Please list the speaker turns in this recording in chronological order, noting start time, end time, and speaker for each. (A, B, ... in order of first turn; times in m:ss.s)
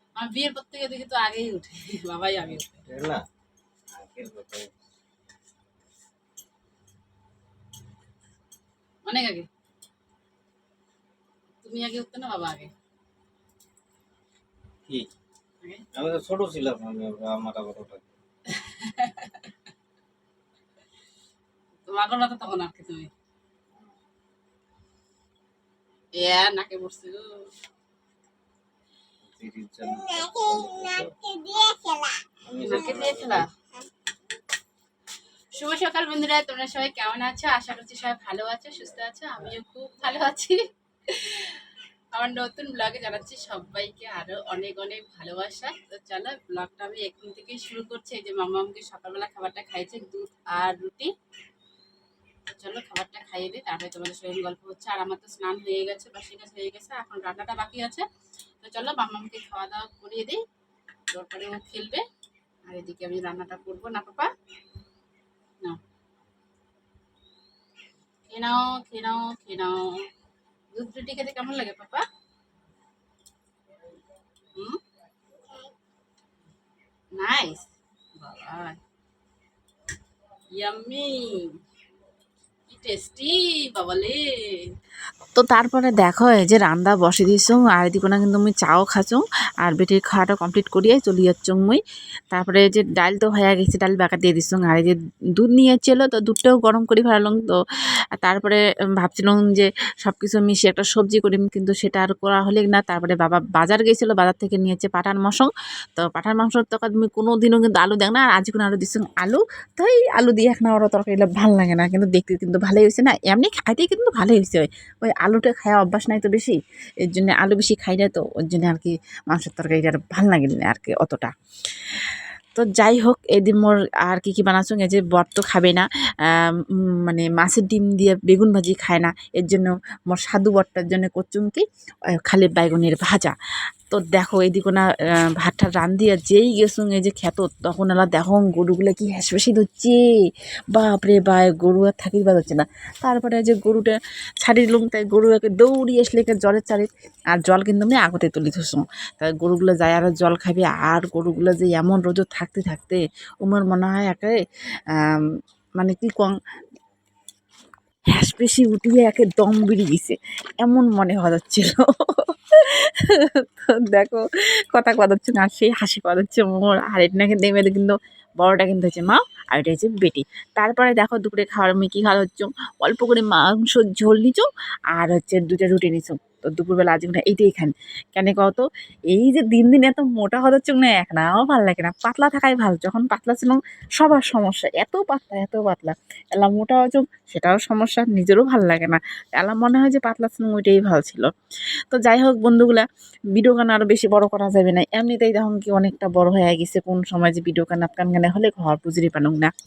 0:00.2-0:02.8 A
0:02.4-0:03.2 B
0:03.9-0:04.8 B
0:09.0-0:09.5 A
0:11.6-0:12.7 A
0:15.9-0:18.2 B
0:18.5-0:19.5 A
0:21.9-0:23.1 A
0:26.2-0:27.3 A
0:29.2-0:31.2 B
0:32.4-0:33.5 B
0:32.6-0:33.5 A
0:35.6-0:51.1 A
0:52.5-0:58.1 A
0:58.6-1:00.4 A
1:01.1-1:02.0 A
1:02.7-1:04.3 A
1:08.3-1:10.1 A
1:10.7-1:12.1 A
1:17.1-1:18.8 A
1:20.5-1:21.6 A
1:22.7-1:24.7 A
1:25.3-1:37.6 C
1:38.2-2:13.4 C
2:13.9-2:20.0 C
2:20.7-2:34.4 C
2:34.9-2:35.3 C
2:35.8-2:36.4 C
2:38.1-3:11.3 C
3:11.9-3:19.5 C